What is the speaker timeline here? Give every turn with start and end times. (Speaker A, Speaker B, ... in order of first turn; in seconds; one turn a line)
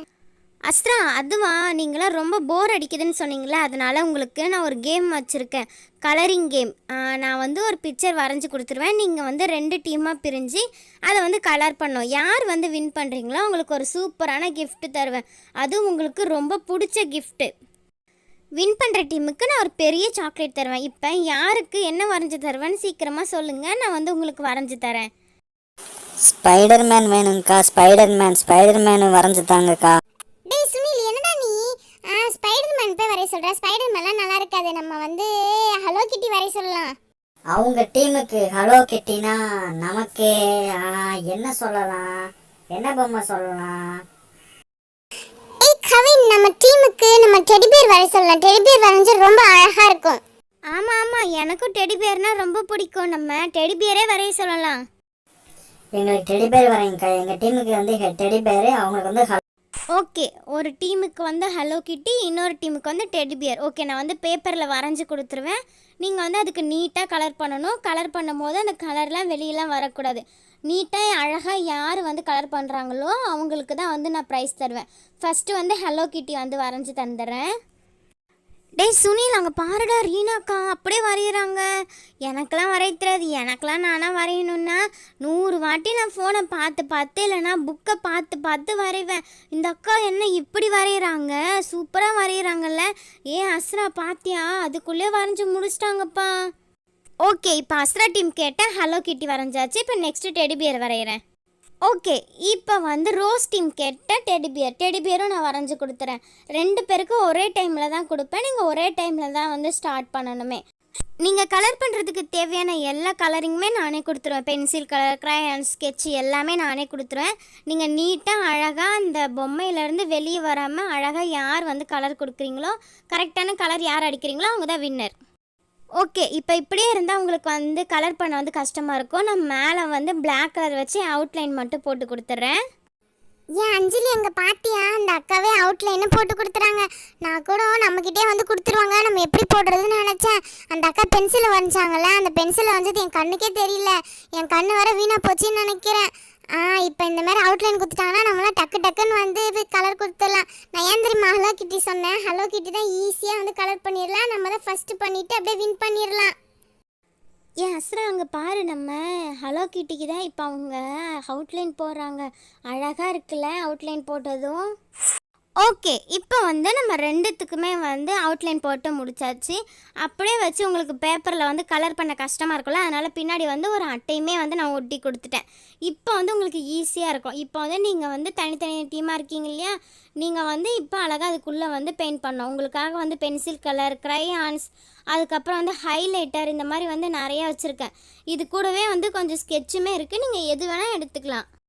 Speaker A: 0.7-17.5
Speaker A: 18.6-25.1
Speaker B: 26.2-29.9
Speaker C: 30.5-35.3
Speaker C: 35.8-36.9
Speaker B: 37.5-43.9
Speaker C: 45.6-50.2
Speaker A: 50.7-54.8
Speaker B: 56.0-59.4
Speaker A: 60.0-77.5
Speaker A: 78.8-81.6
Speaker A: 82.3-96.3
Speaker A: 97.2-101.2
Speaker A: 101.9-110.6
Speaker A: 111.2-125.2
Speaker A: 126.0-132.6
Speaker C: 133.6-156.3
Speaker A: 157.6-164.7
Speaker A: 165.6-191.5